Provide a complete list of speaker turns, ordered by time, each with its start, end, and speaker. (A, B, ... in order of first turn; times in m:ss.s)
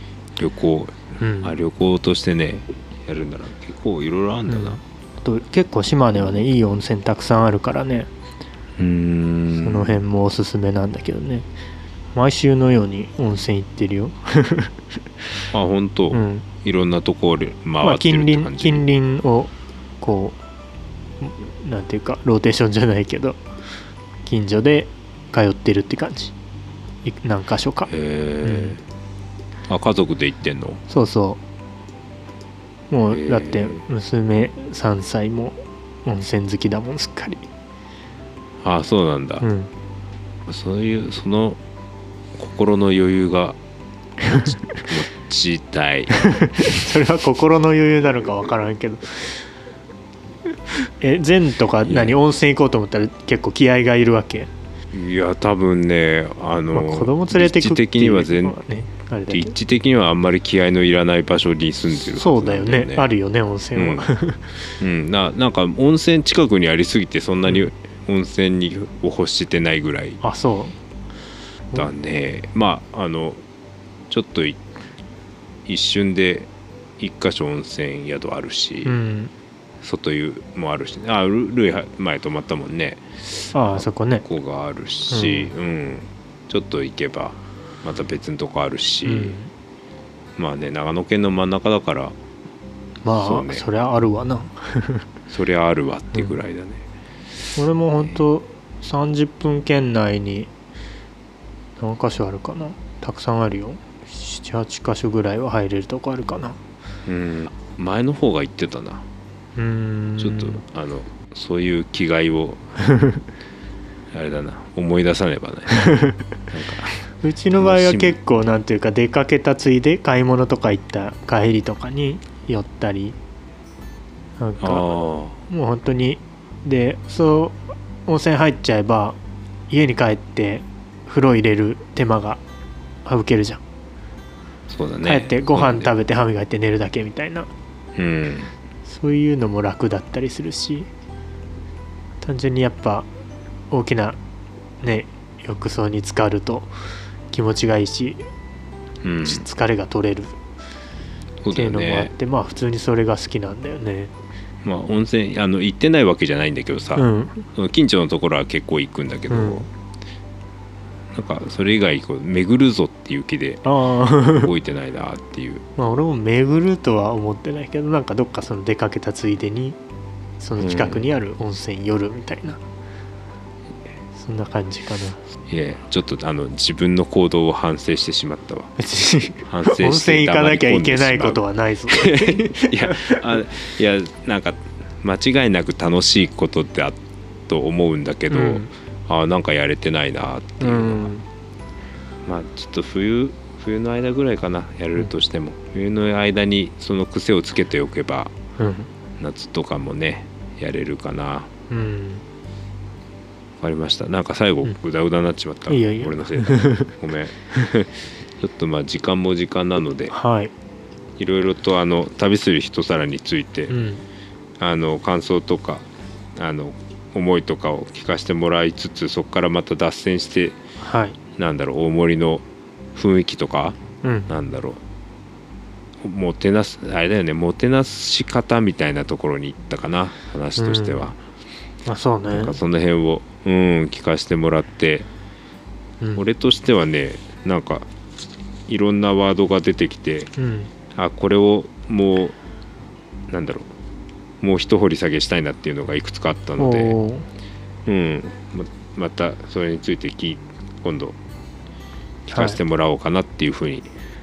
0:00.4-0:04.8 A
0:01.2-0:01.6 B
0:04.5-0:08.1 B
0:08.8-0:10.0 A
0:09.6-0:11.5 B
0:12.1-0:14.7 B
0:15.5-0:18.8 A
0:16.1-0:16.4 B
0:17.8-0:20.4 B
0:21.2-0:23.4 B
0:24.2-0:26.3 B
0:27.0-0:27.9 B
0:27.9-0:28.8 A
0:28.4-0:28.8 B
0:29.7-0:30.8 A
0:30.9-0:31.4 B
0:32.9-0:37.5 B
0:33.1-0:33.8 A
0:38.6-0:39.5 A
0:39.4-0:39.7 B
0:40.5-0:41.6 A
0:42.4-0:43.6 A
0:44.2-0:44.8 B
0:44.3-0:46.7 A
0:46.2-0:49.4 B
0:50.9-0:54.5 B
0:51.8-0:52.2 A
0:54.9-0:58.6 A
0:56.7-0:59.6 B
0:59.3-1:03.1 A
1:01.9-1:04.5 B
1:03.7-1:04.1 A
1:04.8-1:10.2 A
1:10.2-1:10.8 B
1:11.7-1:13.4 A
1:14.1-1:14.6 A
1:15.6-1:19.0 A
1:18.8-1:19.3 B
1:19.8-1:29.4 A
1:23.5-1:24.3 B
1:25.1-1:25.5 B
1:29.0-1:29.5 B
1:30.4-1:32.2 A
1:33.0-1:35.0 B
1:33.1-1:33.7 A
1:35.3-1:36.8 A
1:37.5-1:40.5 B
1:41.8-1:46.6 B
1:47.0-1:49.0 A
1:49.6-1:50.6 B
1:50.2-1:52.6 A
1:54.1-1:56.0 A
1:55.9-1:56.2 B
1:56.5-1:57.0 A
1:57.2-2:03.2 B
1:57.6-1:58.2 A
2:04.4-2:04.9 B
2:04.6-2:05.4 A
2:05.5-2:09.2 B
2:09.7-2:12.4 B
2:13.0-2:13.6 B
2:14.7-2:15.9 A
2:15.0-2:17.5 B
2:18.0-2:18.5 A
2:18.8-2:20.9 B
2:22.2-2:23.1 B
2:23.7-2:24.2 B
2:24.8-2:26.7 B
2:27.3-2:28.2 B
2:29.0-2:29.4 A
2:29.2-2:30.4 B
2:31.4-2:32.1 A
2:31.5-2:34.1 B
2:34.6-2:39.7 A
2:37.0-2:37.4 B
2:39.3-2:39.7 B
2:41.1-2:45.6 A
2:43.6-2:44.5 B
2:45.8-2:49.8 B
2:50.4-2:52.6 B
2:50.6-2:51.1 A
2:54.1-2:55.2 B
2:55.5-2:58.8 A
2:58.8-3:03.3 B
2:59.4-3:11.1 A
3:08.3-3:08.7 B
3:10.6-3:11.2 B
3:12.2-3:18.3 A
3:18.6-3:18.9 B
3:19.2-3:21.5 A
3:21.7-3:22.2 B
3:23.6-3:30.1 A
3:25.7-3:26.9 B
3:30.1-3:30.5 B
3:31.2-3:33.8 A
3:33.7-3:34.0 B
3:34.6-3:40.6 A
3:40.8-3:41.2 B
3:41.4-3:44.8 A
3:44.0-3:44.3 B
3:46.0-3:51.2 A
3:50.6-3:51.1 B
3:51.8-3:52.6 B
3:52.3-3:55.1 A
3:56.1-3:57.8 A
3:58.7-4:00.3 A
4:00.4-4:00.7 B
4:00.9-4:02.4 A
4:03.3-4:03.7 A
4:04.4-4:07.0 A
4:06.6-4:07.3 B
4:07.8-4:11.2 A
4:12.2-4:13.9 A
4:12.3-4:12.6 B